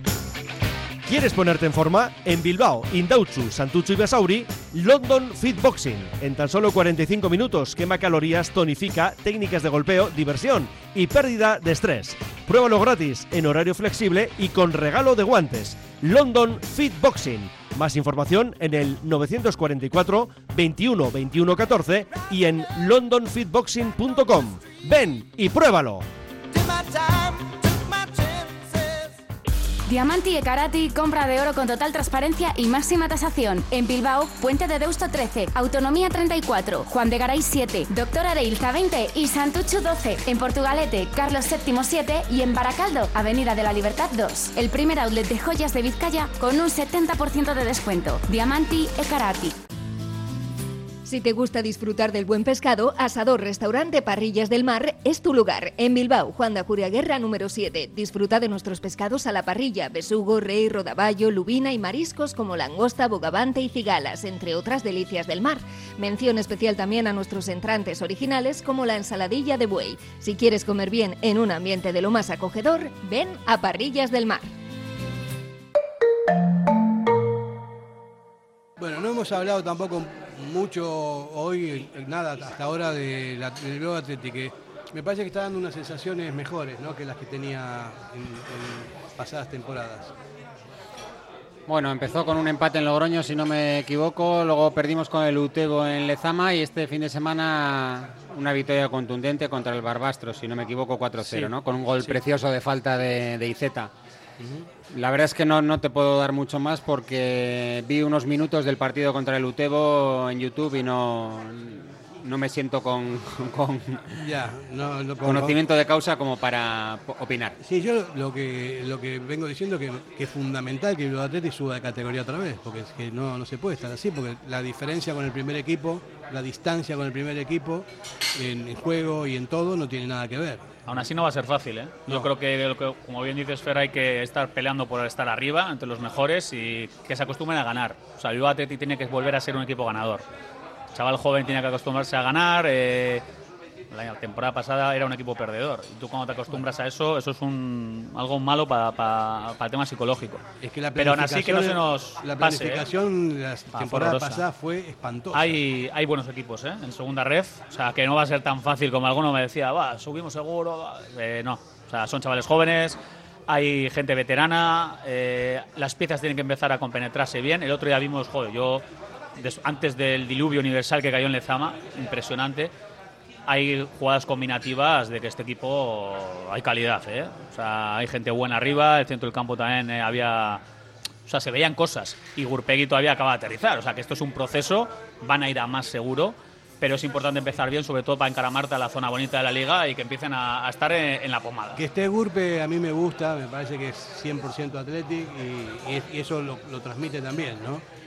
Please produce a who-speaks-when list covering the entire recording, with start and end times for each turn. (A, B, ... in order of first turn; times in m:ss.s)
0:01.1-0:26.0 A
0:29.9-0:49.6 B
0:51.0-1:14.5 C
1:18.8-1:30.1 D
1:31.7-1:43.9 E
1:44.4-1:44.7 D
1:44.9-1:54.1 E
1:54.1-1:55.6 D
1:55.2-1:57.6 E
1:57.6-2:10.6 D
2:10.9-2:20.2 F
2:20.9-2:23.2 F
2:23.9-2:30.4 F
2:30.6-2:35.6 D
2:31.0-2:32.9 F
2:33.7-2:34.4 F
2:35.3-2:43.0 F
2:43.5-2:48.8 F
2:49.4-2:52.7 F
2:53.5-3:00.6 F
3:01.3-3:11.8 F
3:11.8-3:17.8 D